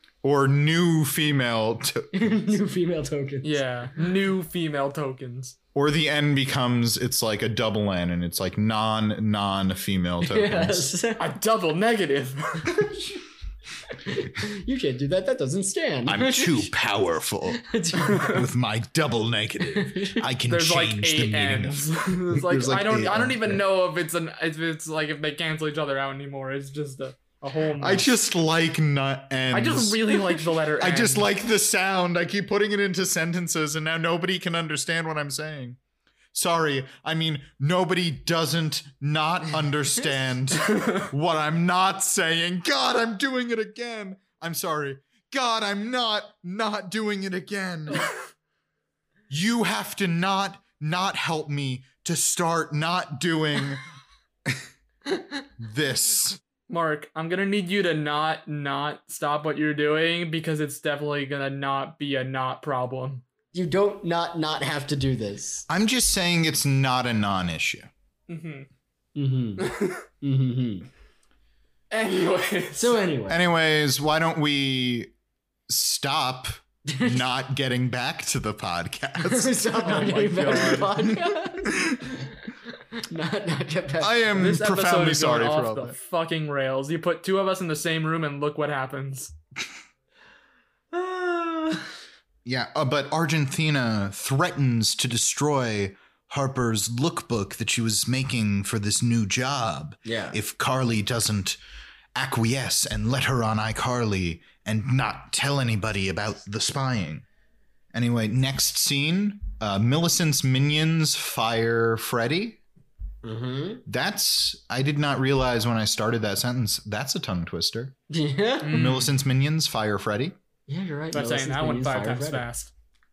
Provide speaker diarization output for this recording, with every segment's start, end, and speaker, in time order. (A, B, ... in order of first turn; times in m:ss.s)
0:00.2-0:02.5 A
0:02.1-0:03.6 B
0:03.4-0:05.6 C
0:05.7-0:10.9 A
0:10.2-0:11.3 B
0:11.2-0:12.8 C
0:12.6-0:13.2 B
0:13.9-0:16.7 B
0:16.0-0:23.6 A
0:17.5-0:18.4 B
0:19.7-0:20.2 B
0:20.5-0:28.1 C
0:27.8-0:35.8 A
0:29.5-0:31.3 C
0:36.3-0:48.1 A
0:40.7-0:41.1 C
0:49.3-0:53.8 A
0:55.6-0:56.4 A
0:56.7-1:03.2 C
1:03.5-1:05.6 B
1:05.7-1:07.9 A
1:08.3-1:08.7 C
1:09.2-1:09.7 B
1:09.6-1:10.0 C
1:10.2-1:10.9 B
1:11.9-1:13.0 C
1:12.7-1:13.4 B
1:13.3-1:15.1 A
1:15.7-1:19.7 A
1:16.9-1:17.2 B
1:19.2-1:22.4 B
1:19.8-1:21.1 C
1:21.7-1:22.1 A
1:22.9-1:24.6 B
1:24.0-1:26.0 A
1:24.4-1:29.3 C
1:30.9-1:31.9 B
1:32.4-1:41.6 A
1:40.0-1:40.4 B
1:42.1-1:47.2 A
1:47.9-1:52.6 A
1:53.2-1:53.8 B
1:53.8-1:57.9 A
1:58.1-1:58.8 B
1:58.6-1:59.1 C
1:58.7-2:00.3 A
2:00.7-2:02.4 B
2:01.1-2:02.7 C